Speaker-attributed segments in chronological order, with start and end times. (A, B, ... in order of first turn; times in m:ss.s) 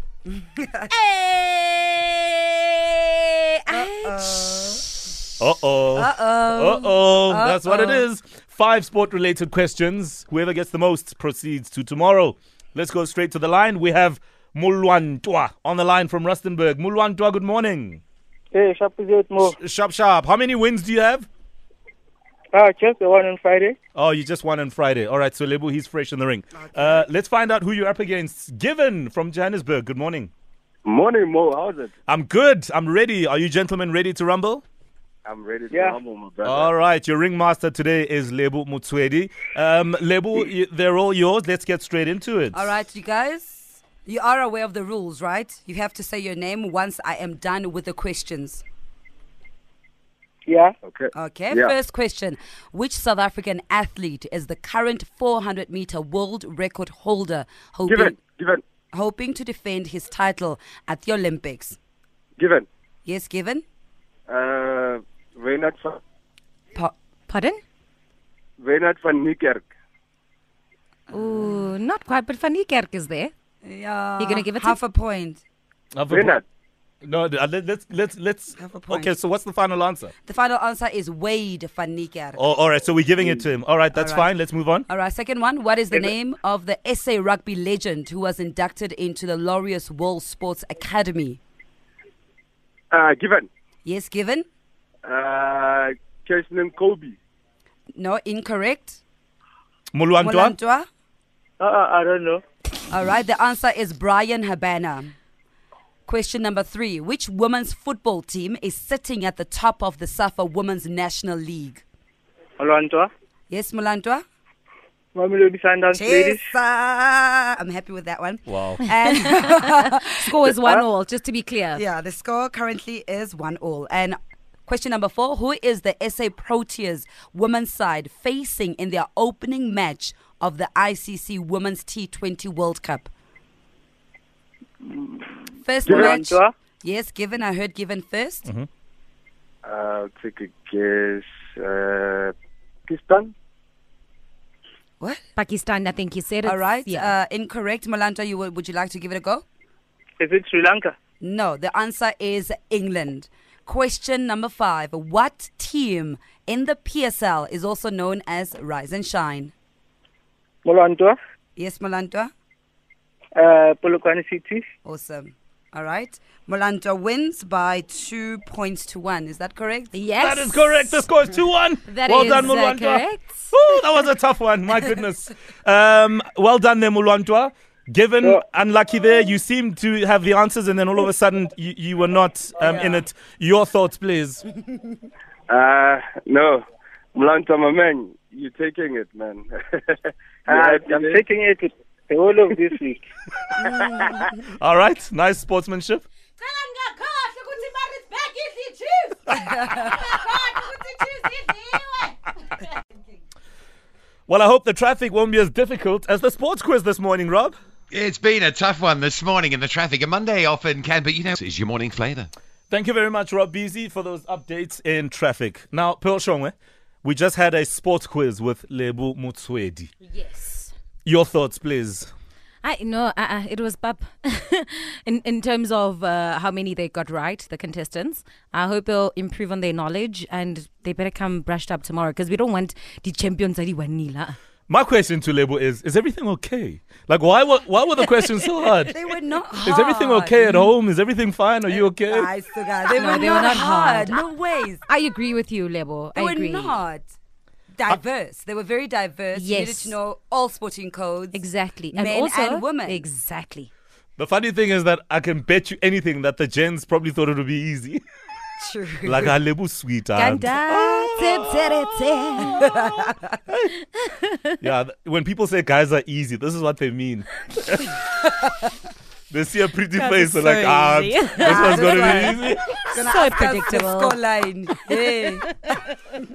0:00.6-0:00.9 A
0:01.0-0:01.9 B
0:03.5-0:04.8 B
0:03.7-0:04.8 A
0:05.4-0:18.0 C
0:05.9-0:08.0 A
0:18.5-0:19.6 D
0:19.4-0:21.3 C
0:22.5-0:23.8 D
0:23.9-0:30.3 C
0:26.5-0:27.0 A
0:30.8-0:31.9 E
0:32.1-0:34.6 C
0:35.2-0:36.7 E
0:35.7-0:36.0 D
0:36.4-0:42.6 C
0:42.5-0:48.6 A
0:50.5-0:50.7 D
0:50.8-0:51.7 E
0:51.1-0:58.2 A
0:57.9-0:58.6 E
0:58.9-1:01.8 A
1:02.4-1:02.7 E
1:03.0-1:03.6 A
1:04.3-1:06.0 E
1:07.3-1:07.6 B
1:08.6-1:09.6 E
1:11.1-1:11.6 A
1:11.1-1:13.3 B
1:13.6-1:15.4 A
1:14.2-1:14.8 B
1:15.9-1:16.4 C
1:16.1-1:16.4 E
1:17.0-1:20.1 C
1:18.6-1:19.1 A
1:20.2-1:22.4 A
1:22.4-1:24.9 C
1:23.9-1:24.3 A
1:24.9-1:31.4 A
1:32.9-1:33.5 E
1:33.8-1:34.4 A
1:35.0-1:37.2 E
1:37.9-1:39.0 A
1:39.9-1:40.5 C
1:40.2-1:40.9 A
1:41.6-1:42.4 D
1:42.9-1:45.1 A
1:46.1-1:51.8 A
1:52.6-1:53.1 D
1:53.5-1:54.2 A
1:55.1-1:56.4 D
1:55.9-2:00.5 A
1:58.5-1:58.8 C
1:59.2-2:01.8 B
2:01.7-2:13.1 A
2:14.9-2:15.2 D
2:15.6-2:18.5 A
2:15.8-2:16.2 E
2:15.8-2:16.5 D
2:19.6-2:22.3 E
2:22.9-2:23.3 E
2:25.4-2:27.1 B
2:26.4-2:29.4 A
2:30.2-2:30.9 D
2:31.2-2:39.5 A
2:40.6-2:41.2 D
2:41.6-2:42.3 A
2:43.4-2:44.6 D
2:44.8-2:49.9 A
2:49.9-2:51.0 B
2:50.2-3:04.4 C
2:51.9-2:53.5 B
3:02.7-3:03.0 A
3:05.5-3:06.6 E
3:07.1-3:11.2 E
3:10.5-3:13.0 D
3:13.6-3:14.3 A
3:14.2-3:16.1 C
3:16.4-3:22.3 B
3:24.3-3:27.6 C
3:27.9-3:32.3 F
3:32.7-3:39.9 C
3:40.0-3:40.7 B
3:41.0-3:42.1 C
3:42.6-3:54.4 B
3:54.7-3:59.0 C
3:58.9-4:00.7 A
3:59.6-4:02.3 C
4:01.9-4:04.8 A
4:02.9-4:04.2 B
4:04.9-4:06.8 B
4:06.2-4:07.1 A
4:07.7-4:11.4 A
4:09.3-4:09.9 B
4:11.3-4:13.7 B
4:11.9-4:13.0 A
4:14.2-4:18.0 C
4:18.6-4:19.4 A
4:19.0-4:21.4 C
4:20.1-4:23.1 B
4:21.2-4:21.8 A
4:22.4-4:23.3 A
4:23.9-4:24.5 B
4:24.6-4:28.0 C
4:29.3-4:32.6 C
4:29.9-4:34.2 B
4:31.4-4:32.4 A
4:32.9-4:35.5 A
4:34.7-4:35.8 B